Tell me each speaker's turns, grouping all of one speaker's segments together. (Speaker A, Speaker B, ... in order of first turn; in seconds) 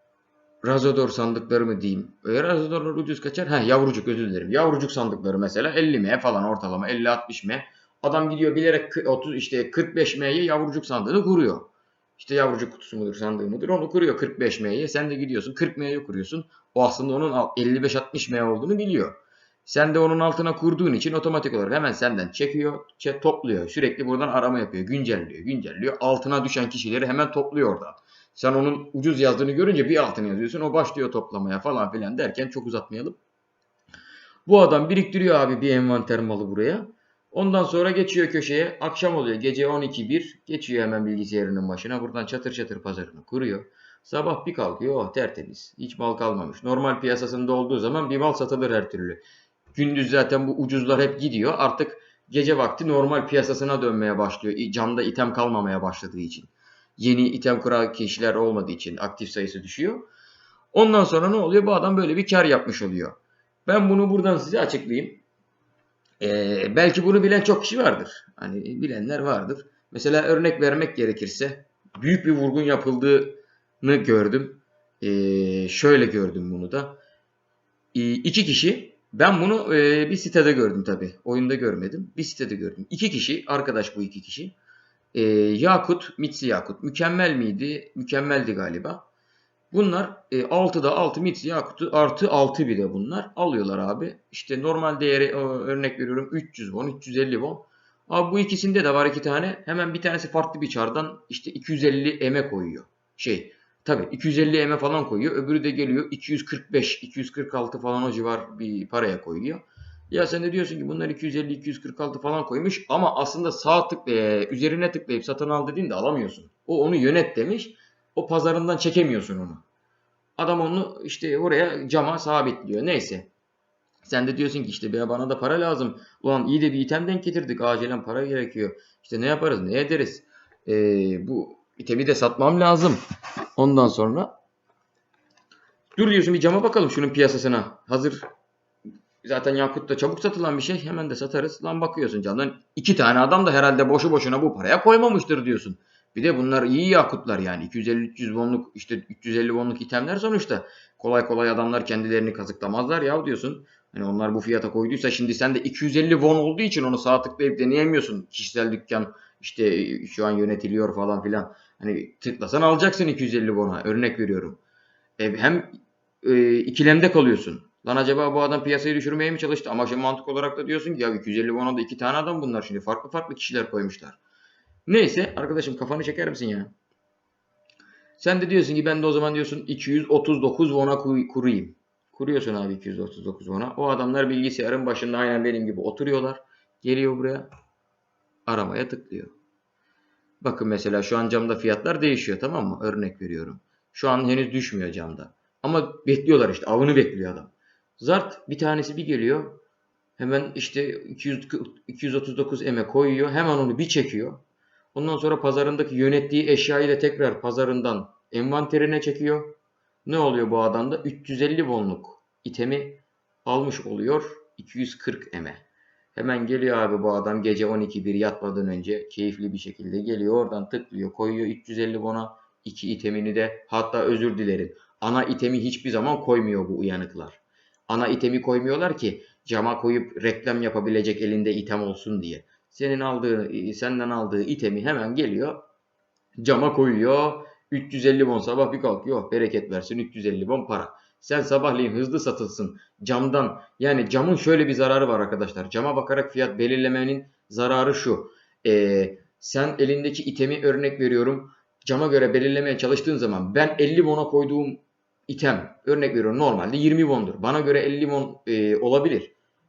Speaker A: 0.6-33.2, 34.5-49.2, 49.7-60.1, 60.7-65.2, 66.2-77.0, 77.9-84.5, 85.1-89.0, 89.7-119.6, 120.4-123.3, 124.0-133.0, 133.6-134.3, 136.0-138.2, 139.2-164.6, 165.2-174.2, 174.9-176.7, 178.2-187.5, 188.5-189.3, 190.4-199.6, 200.2-204.4, 204.9-215.6, 216.2-235.7, 236.4-259.3